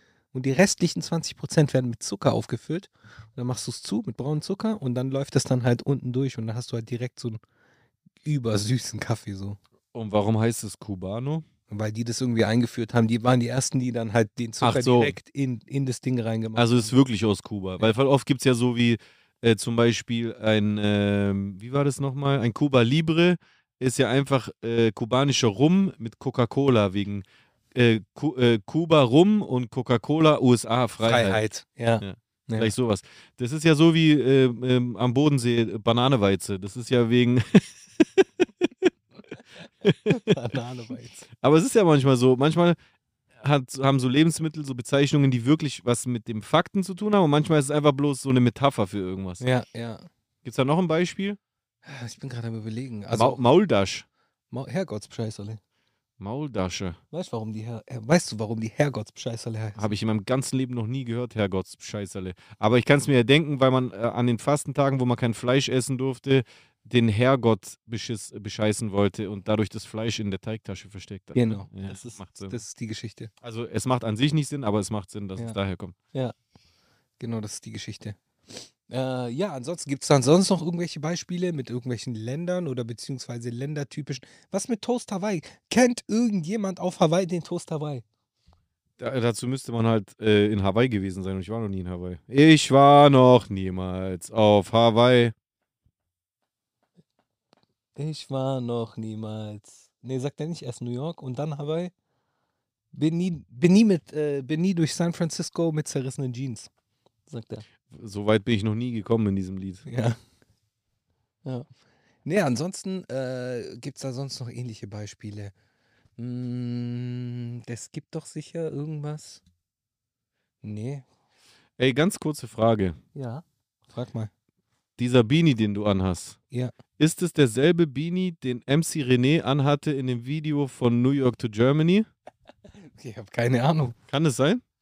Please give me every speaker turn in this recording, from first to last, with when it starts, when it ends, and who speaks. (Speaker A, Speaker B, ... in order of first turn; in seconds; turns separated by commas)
Speaker A: 0.3-7.4, Speaker A: 8.2-9.6, Speaker B: 9.9-11.4, Speaker A: 11.7-16.9, Speaker B: 14.6-15.1, Speaker B: 16.6-31.4, Speaker A: 31.0-32.7, Speaker B: 32.0-38.9, Speaker B: 39.8-40.4, Speaker A: 40.1-41.2, Speaker B: 41.4-42.8, Speaker B: 43.4-49.5, Speaker A: 49.4-50.1, Speaker B: 50.4-51.4, Speaker A: 51.8-53.4, Speaker B: 53.1-54.0, Speaker A: 54.5-55.6, Speaker B: 56.2-57.0, Speaker A: 57.1-59.9, Speaker B: 59.8-72.6, Speaker A: 71.3-73.3, Speaker B: 73.4-75.9, Speaker A: 77.2-88.0, Speaker B: 89.0-95.3, Speaker A: 98.0-101.9, Speaker A: 102.9-106.7, Speaker A: 107.3-107.6, Speaker B: 107.9-109.8, Speaker A: 109.8-110.2, Speaker A: 112.2-115.5, Speaker A: 116.2-119.4, Speaker A: 120.6-121.0, Speaker B: 121.8-123.0, Speaker A: 123.1-124.3, Speaker B: 125.0-126.4, Speaker B: 127.0-132.1, Speaker A: 132.9-134.0, Speaker B: 134.1-134.6